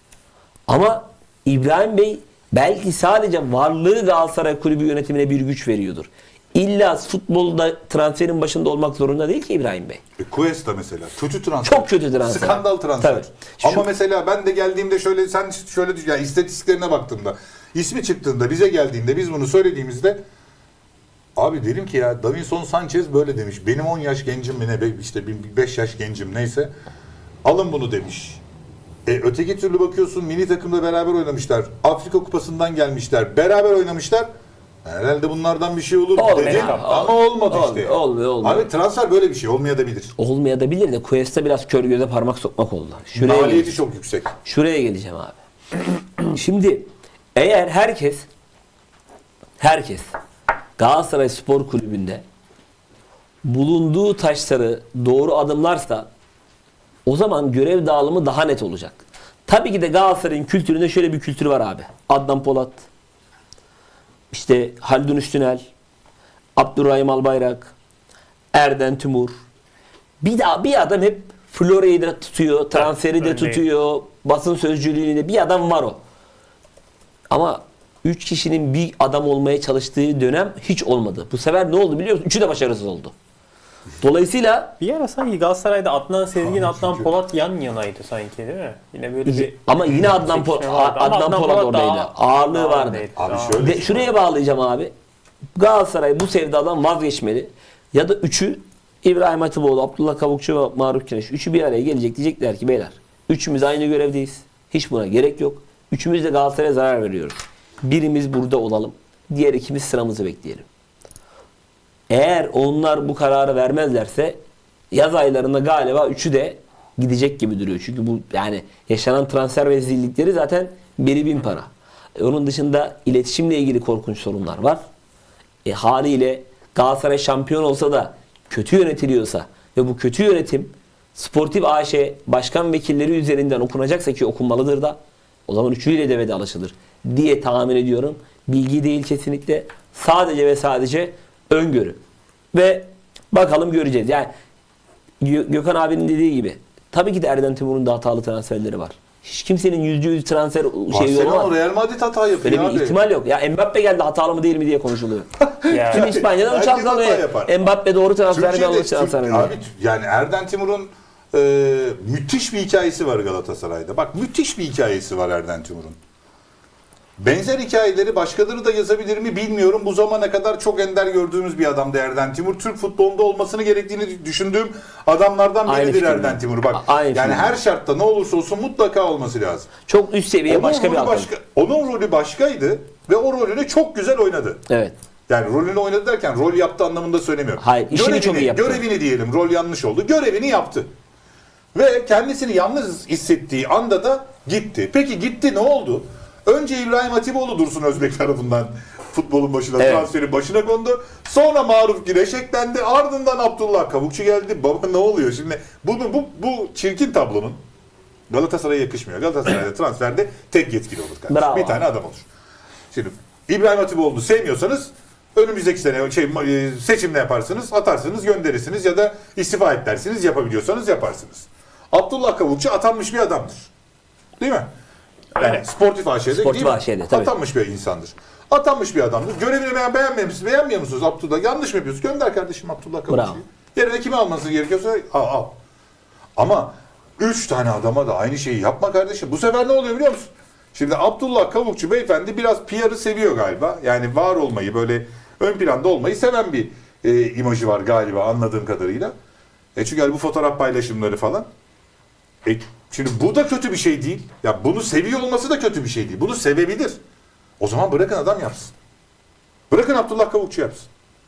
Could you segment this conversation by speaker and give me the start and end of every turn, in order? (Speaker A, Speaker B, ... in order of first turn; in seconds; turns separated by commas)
Speaker A: 0.7-10.0, Speaker B: 10.2-20.2, Speaker A: 11.6-13.8, Speaker B: 21.4-26.7, Speaker B: 27.4-28.4, Speaker B: 29.1-34.3, Speaker B: 34.8-40.1, Speaker A: 36.1-38.7, Speaker C: 36.4-36.9, Speaker A: 40.2-43.7, Speaker B: 43.1-44.4, Speaker A: 44.4-45.4, Speaker A: 46.2-48.2, Speaker A: 49.6-50.1, Speaker A: 50.8-52.2, Speaker A: 53.4-56.1, Speaker A: 57.0-62.9, Speaker A: 64.3-65.7, Speaker A: 66.5-67.7, Speaker A: 68.5-69.3, Speaker A: 70.2-76.0, Speaker C: 72.7-73.6, Speaker A: 77.3-83.1, Speaker A: 84.0-84.7, Speaker C: 84.8-93.6, Speaker B: 86.4-87.1, Speaker A: 89.2-94.9, Speaker B: 93.2-94.1, Speaker A: 95.5-110.6, Speaker A: 112.1-114.4, Speaker A: 114.9-124.8, Speaker A: 125.6-142.0, Speaker A: 142.5-144.3, Speaker A: 145.2-151.5, Speaker B: 150.9-153.0, Speaker A: 152.4-159.5, Speaker B: 155.4-157.7, Speaker C: 155.7-156.2, Speaker B: 158.3-166.0, Speaker B: 167.2-179.7, Speaker A: 175.7-177.5, Speaker A: 179.9-181.3, Speaker B: 180.5-184.6, Speaker A: 184.7-184.9, Speaker B: 185.3-190.9, Speaker A: 187.6-188.8, Speaker B: 191.7-207.6, Speaker A: 199.8-200.1, Speaker B: 208.3-212.3, Speaker A: 211.3-211.8, Speaker B: 212.9-223.7, Speaker B: 224.4-224.7, Speaker C: 225.3-225.6, Speaker B: 225.4-235.6, Speaker A: 226.3-227.3, Speaker A: 233.1-233.4, Speaker B: 236.4-249.1, Speaker B: 249.7-251.5, Speaker B: 252.4-257.0, Speaker B: 257.6-258.7, Speaker B: 259.7-260.9